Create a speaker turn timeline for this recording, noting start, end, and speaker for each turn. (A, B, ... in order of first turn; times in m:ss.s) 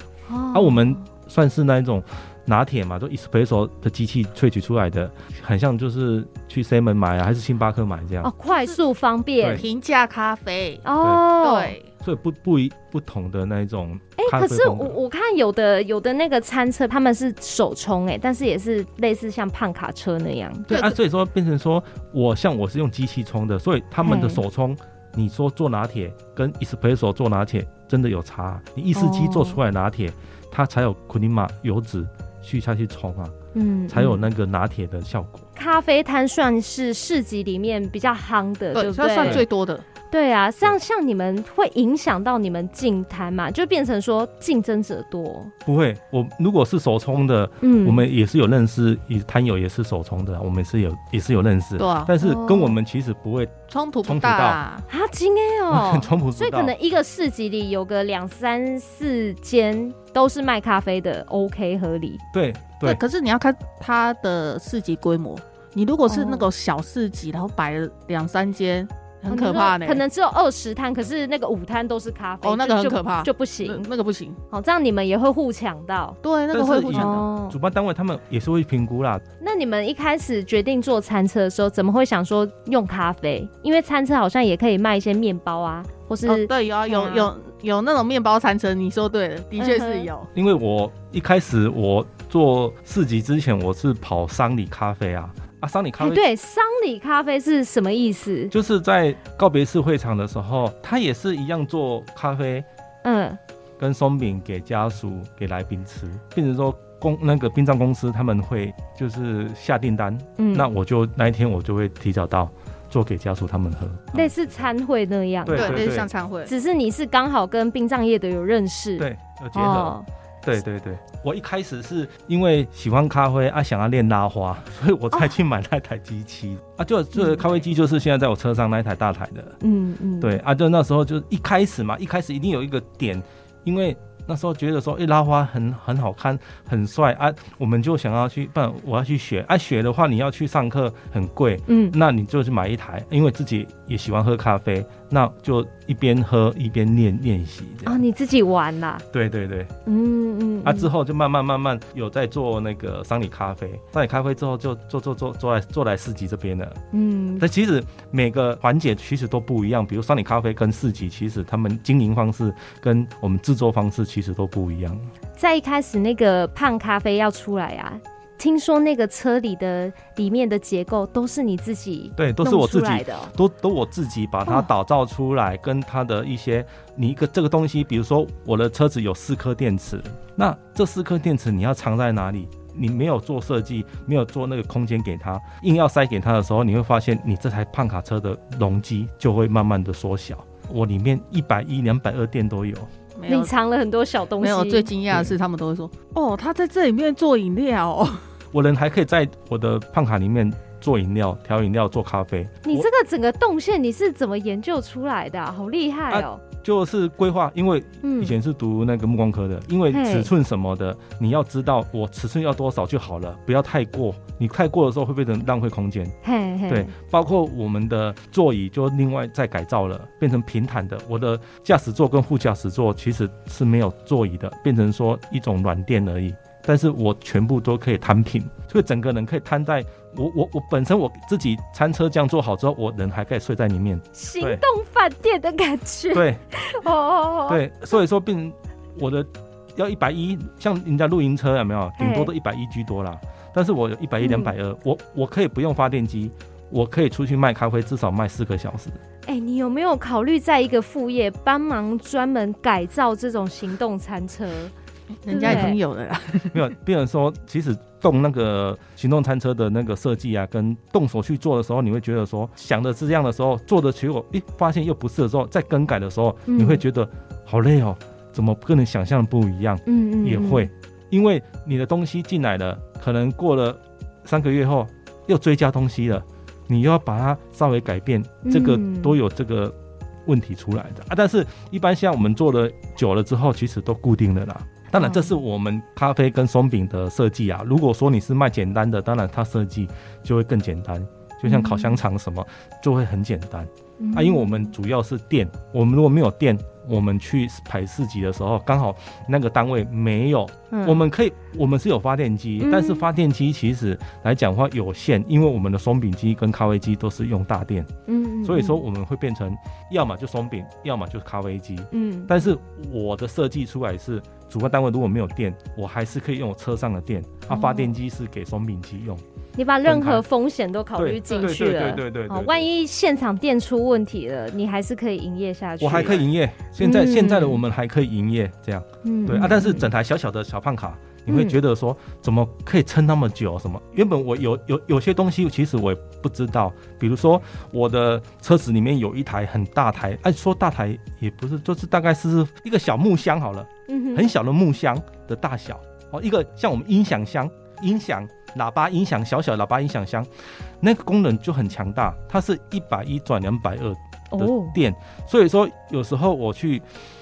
0:00.3-0:01.0 A
0:00.5-0:08.3 B
0:08.2-0:09.6 A
0:08.5-0:08.8 C
0:09.6-0:10.8 C
0:10.8-0:11.8 A
0:11.4-0:11.9 C
0:12.0-0:15.0 B
0:14.2-0:20.7 A
0:20.7-0:33.3 B
0:20.7-0:21.0 C
0:24.0-0:24.4 A
0:29.0-0:29.6 A
0:33.5-0:34.2 A
0:33.9-0:35.5 B
0:35.6-0:39.5 A
0:38.8-0:39.9 C
0:40.1-0:45.5 A
0:45.6-0:54.6 B
0:47.6-0:48.0 A
0:51.8-0:52.1 C
0:52.2-0:52.8 A
0:53.7-0:54.9 C
0:54.9-1:02.2 A
0:55.7-0:56.7 B
1:02.3-1:03.0 B
1:02.8-1:10.0 C
1:06.1-1:06.5 A
1:09.3-1:13.9 A
1:12.4-1:14.4 C
1:14.5-1:16.2 A
1:16.2-1:17.3 C
1:16.5-1:19.2 B
1:16.9-1:17.6 A
1:19.4-1:27.3 A
1:26.3-1:30.3 C
1:29.6-1:30.1 A
1:30.4-1:36.3 B
1:36.0-1:38.5 A
1:38.5-1:42.7 B
1:43.0-1:43.4 A
1:43.8-1:54.7 B
1:50.4-1:50.7 A
1:54.1-1:55.9 A
1:55.5-1:56.1 B
1:55.5-1:56.5 C
1:56.5-2:00.1 A
1:59.0-2:09.6 B
2:07.2-2:07.5 A
2:09.6-2:10.4 A
2:10.2-2:28.0 B
2:21.7-2:22.0 A
2:27.8-2:29.0 A
2:29.1-2:29.7 B
2:29.9-2:30.9 A
2:30.6-2:36.8 B
2:36.9-2:37.4 A
2:37.4-2:45.1 B
2:45.4-2:53.3 A
2:52.2-3:12.9 B
3:13.2-3:13.5 C
3:13.3-3:14.9 A
3:14.4-3:18.2 C
3:18.5-3:22.9 B
3:22.6-3:26.4 A
3:26.1-3:36.2 B
3:28.0-3:28.3 A
3:29.9-3:30.3 A
3:36.2-3:36.9 A
3:36.7-3:54.6 B
3:54.2-3:57.6 A
3:56.1-3:56.4 B
3:57.5-4:09.0 B
4:02.0-4:02.3 A
4:04.2-4:04.5 A
4:09.3-4:14.7 A
4:15.2-4:16.7 C
4:15.3-4:15.8 A
4:15.4-4:15.7 B
4:16.5-4:39.8 B
4:26.5-4:26.8 A
4:29.9-4:30.7 A
4:38.4-4:39.2 A
4:40.3-5:07.9 B
4:45.0-4:45.3 A
4:51.4-4:52.0 A
4:54.0-4:54.7 A
5:00.7-5:01.0 A
5:02.6-5:03.0 A
5:08.1-5:08.8 A
5:08.4-5:19.2 B
5:11.9-5:12.3 A
5:17.5-5:17.9 A
5:19.6-5:27.6 A
5:19.8-5:20.2 B
5:21.0-5:22.7 B
5:25.8-5:56.9 B
5:29.0-5:29.9 A
5:31.3-5:31.6 A
5:43.9-5:44.3 A
5:54.3-5:54.8 A